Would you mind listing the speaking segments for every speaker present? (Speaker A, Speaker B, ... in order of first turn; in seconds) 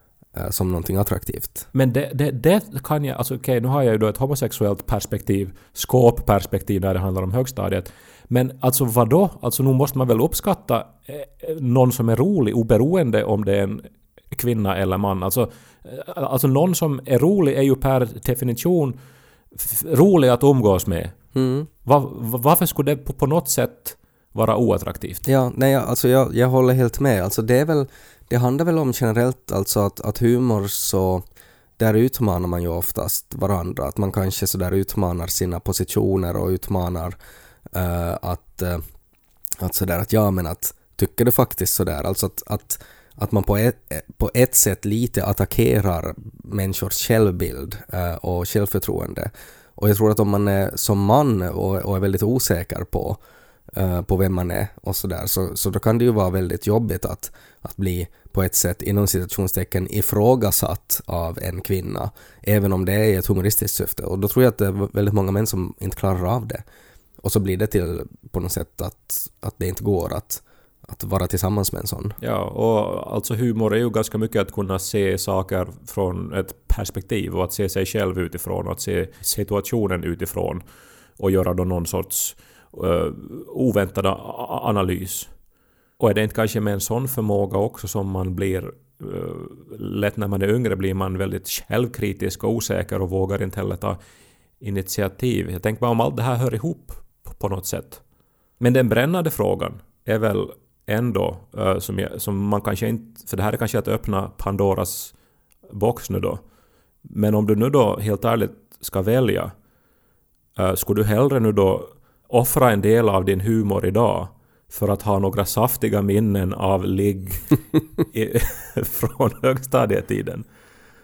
Speaker A: 0.3-1.7, 21.4-21.7, 25.2-31.3, 31.8-37.2, 37.7-38.8, 39.6-53.2, 53.7-66.6, 67.2-72.2
Speaker B: 1.7-19.0, 19.6-21.2, 21.9-25.2, 72.2-80.6, 81.2-85.3, 86.0-94.0, 94.6-98.0, 98.6-105.1, 105.7-106.4, 107.0-109.5, 110.6-120.5